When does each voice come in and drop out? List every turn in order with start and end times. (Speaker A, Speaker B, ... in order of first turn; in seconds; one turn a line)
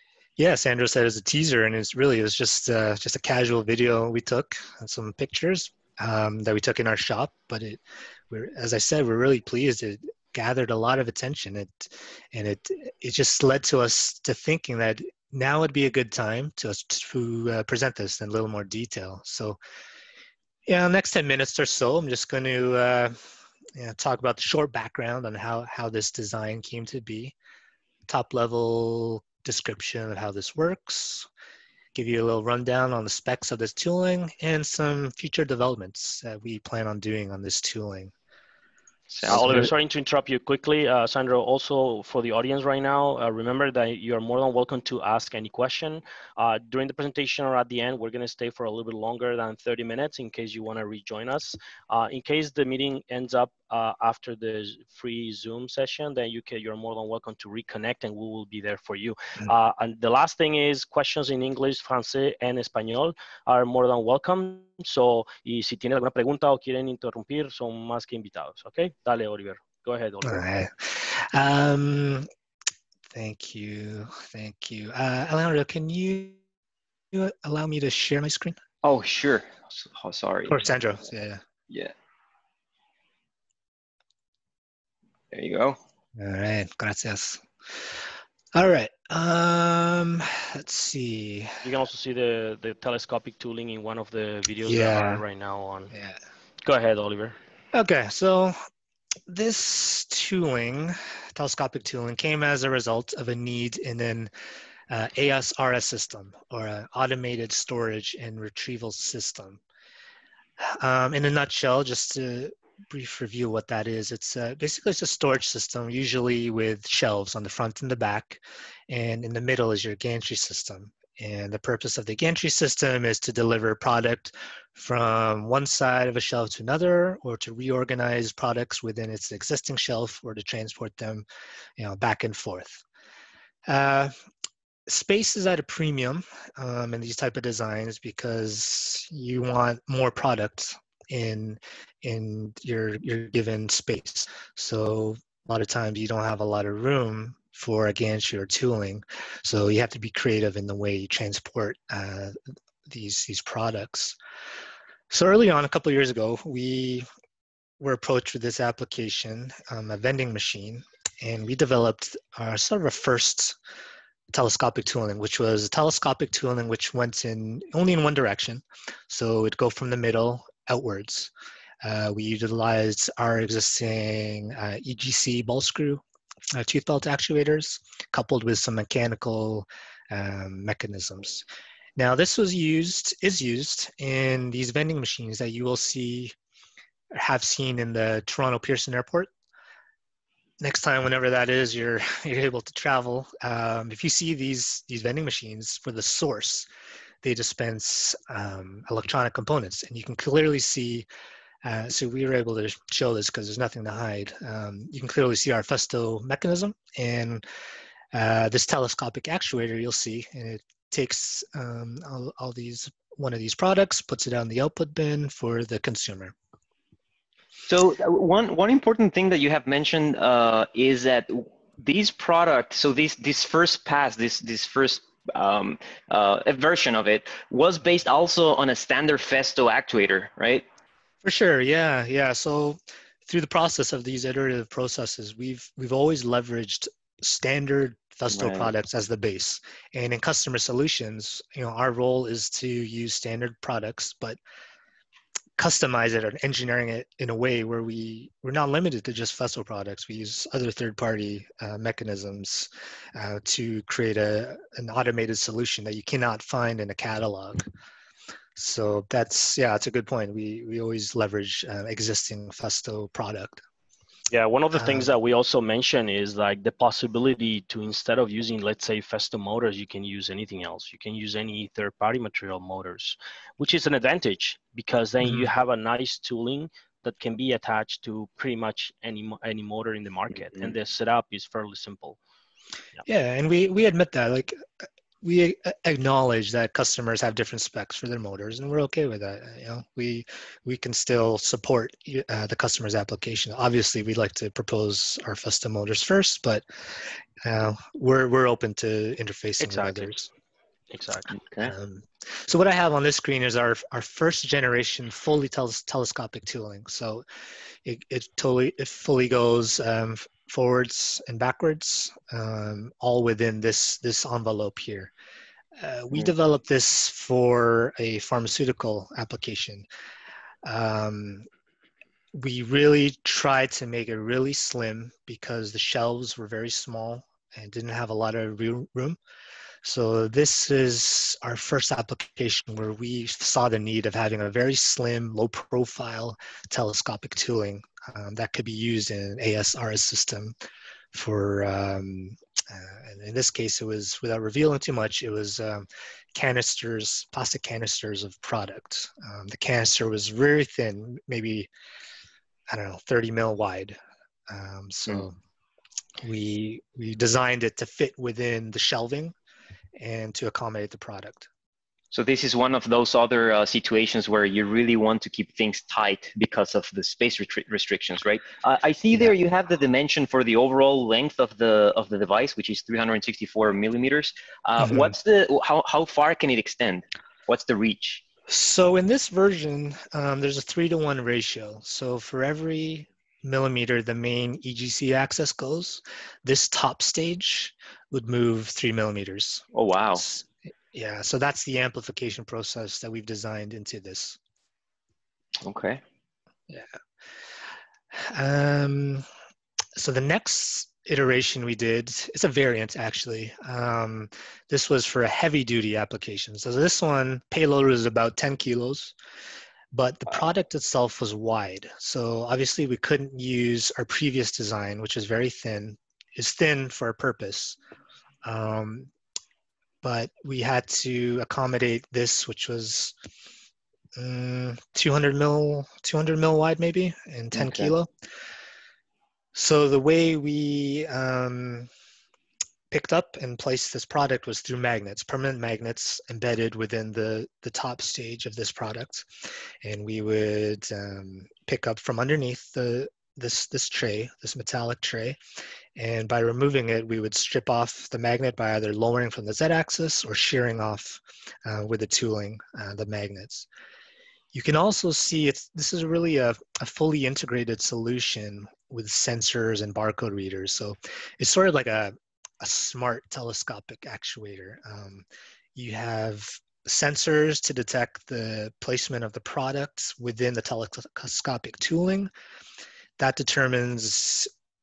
Speaker A: 0.4-19.6
Speaker A: 20.7-23.1
Speaker A: 23.8-27.4
Speaker A: 28.1-31.3
Speaker A: 31.9-38.1
Speaker B: 39.1-39.7
Speaker A: 39.3-39.7
Speaker C: 39.3-70.5
Speaker A: 70.2-72.3
Speaker A: 73.1-76.4
Speaker A: 77.1-78.6
Speaker B: 78.8-80.6
Speaker A: 80.5-81.4
Speaker B: 85.3-85.8
Speaker A: 86.2-87.9
Speaker A: 88.5-91.6
Speaker C: 91.6-95.9
Speaker A: 94.6-95.2
Speaker A: 95.9-96.2
Speaker C: 96.7-97.4
Speaker A: 97.7-98.5
Speaker A: 99.3-104.3
Speaker A: 104.9-109.6
Speaker A: 110.6-131.2
Speaker A: 131.8-132.8
Speaker A: 133.7-134.1
Speaker A: 134.9-152.3
Speaker A: 152.9-154.2
Speaker A: 155.1-157.1
Speaker A: 157.8-163.6
Speaker A: 164.3-171.3
Speaker A: 171.8-176.0
Speaker A: 176.6-181.5
Speaker A: 182.0-186.3
Speaker A: 187.2-189.3
Speaker A: 190.6-196.7
Speaker A: 197.2-201.1
Speaker A: 201.6-207.4
Speaker A: 208.1-216.3
Speaker B: 217.7-230.7
Speaker A: 231.2-244.4
Speaker B: 238.3-238.7
Speaker A: 245.6-257.6
Speaker A: 258.6-263.6
Speaker C: 264.3-282.2
Speaker A: 264.7-265.1
Speaker A: 275.2-275.5
Speaker A: 283.1-284.6
Speaker A: 285.2-296.6
Speaker A: 297.4-300.3
Speaker C: 299.6-300.2
Speaker C: 300.9-301.3
Speaker B: 301.3-301.7
Speaker A: 301.6-307.2
Speaker A: 307.9-315.1
Speaker A: 315.8-319.9
Speaker A: 320.6-321.5
Speaker A: 322.3-329.2
Speaker A: 329.8-340.6
Speaker A: 341.1-351.7
Speaker A: 352.7-354.0
Speaker A: 354.5-355.4
Speaker A: 356.2-359.3
Speaker A: 360.0-361.5
Speaker B: 362.1-378.2
Speaker A: 374.8-375.1
Speaker A: 378.5-389.7
Speaker B: 389.7-390.2
Speaker A: 390.2-394.4
Speaker B: 395.6-396.0
Speaker A: 396.7-396.9
Speaker A: 398.1-399.2
Speaker A: 400.0-409.1
Speaker A: 409.9-417.8
Speaker A: 418.4-419.1
Speaker A: 420.0-423.1
Speaker A: 424.2-428.1
Speaker B: 427.5-427.9
Speaker A: 429.5-431.9
Speaker A: 432.9-439.3
Speaker A: 439.8-445.4
Speaker A: 446.0-453.7
Speaker A: 454.5-472.3
Speaker A: 473.2-474.5